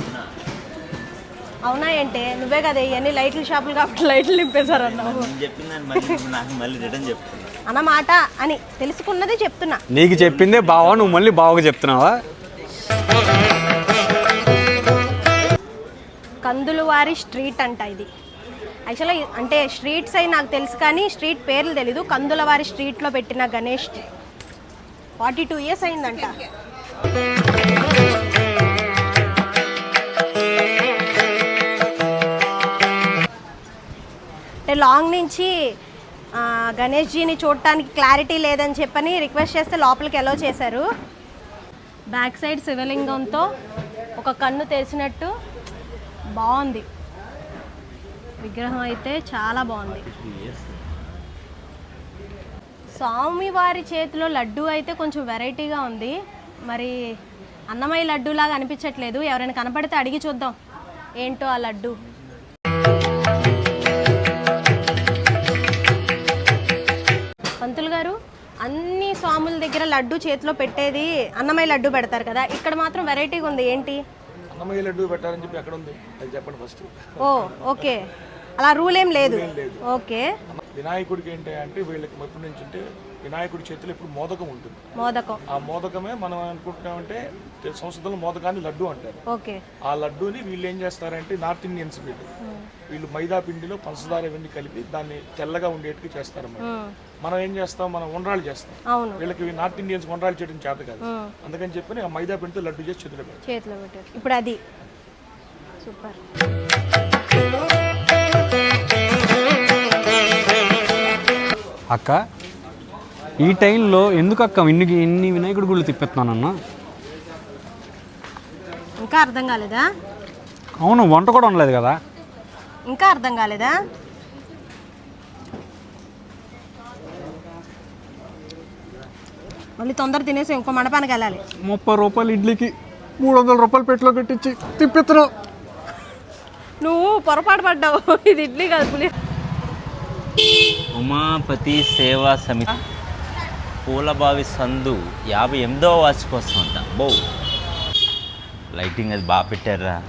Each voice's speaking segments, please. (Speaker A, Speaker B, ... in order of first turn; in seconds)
Speaker A: 1.6-5.3, 7.7-9.8, 16.4-18.1, 18.9-24.0, 25.2-26.4, 34.7-35.5, 36.4-40.9, 42.1-43.5, 44.2-45.3, 46.4-46.8, 48.4-50.0, 52.9-56.1, 56.7-57.0, 57.7-60.5, 61.2-61.9, 67.6-74.0, 77.2-78.0, 78.6-80.2, 85.0-85.4, 89.3-89.6, 96.6-96.9, 98.9-99.2, 101.0-101.3, 103.4-104.6, 105.8-106.2, 119.0-119.8, 122.9-123.7, 129.8-131.4, 136.8-139.1
Speaker B: 4.6-7.5, 140.9-142.7, 143.8-147.2, 148.7-150.0
Speaker C: 9.9-12.2, 111.9-112.2, 113.4-116.5, 120.8-122.0, 131.6-135.3
Speaker D: 74.5-77.1, 79.2-79.8, 80.5-84.8, 85.5-89.2, 89.9-92.3, 92.9-96.6, 97.2-103.4